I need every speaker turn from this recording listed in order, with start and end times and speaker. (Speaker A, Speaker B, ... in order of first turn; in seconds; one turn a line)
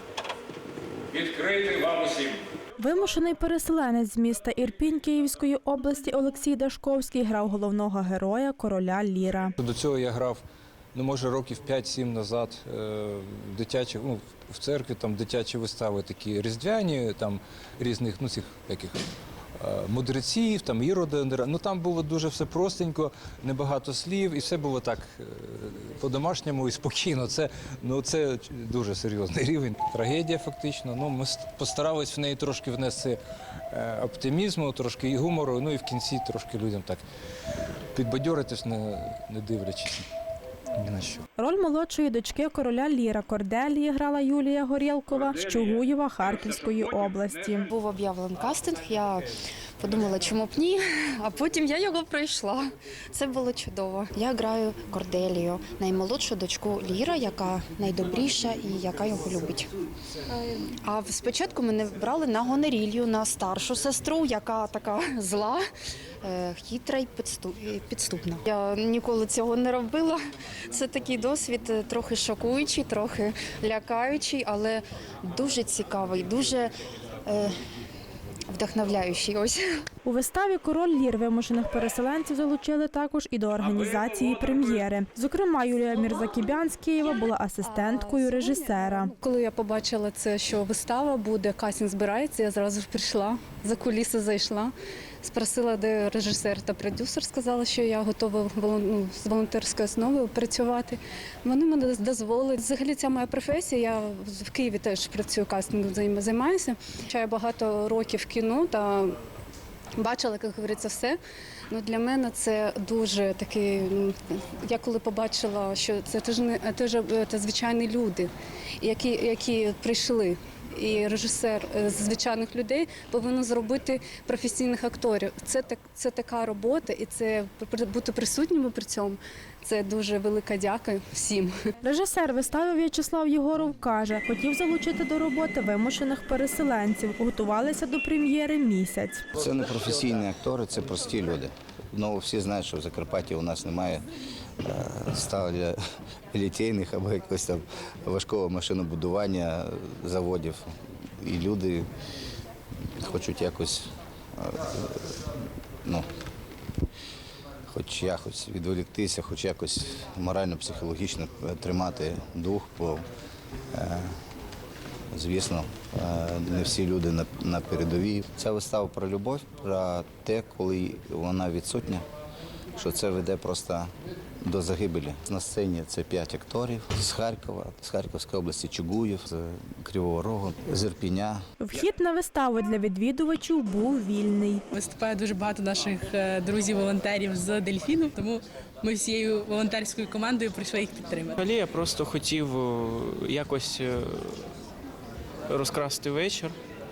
Speaker A: 1.1-2.2
Speaker B: 2.8-9.5
Speaker A: 9.6-10.4
Speaker A: 10.9-19.0
Speaker A: 19.6-33.2
Speaker A: 33.7-37.0
Speaker A: 37.9-40.0
Speaker A: 40.8-41.2
Speaker B: 41.4-47.7
Speaker C: 47.7-59.7
Speaker C: 60.6-65.6
Speaker C: 66.2-76.7
Speaker C: 77.2-77.5
Speaker C: 78.5-79.6
Speaker B: 80.0-89.1
Speaker D: 87.6-109.1
Speaker D: 110.0-111.2
Speaker D: 111.7-118.3
Speaker D: 118.8-131.5
Speaker B: 131.8-139.2
Speaker E: 139.3-144.0
Speaker E: 144.6-145.8
Speaker E: 146.3-150.7
Speaker E: 151.2-151.9
Speaker E: 152.9-155.1
Speaker E: 157.7-163.0
Speaker E: 163.7-164.1
Speaker E: 165.1-172.0
Speaker E: 172.8-173.9
Speaker E: 174.4-181.4
Speaker B: 181.6-184.6
Speaker F: 184.7-191.4
Speaker G: 191.4-194.3
Speaker G: 195.5-196.5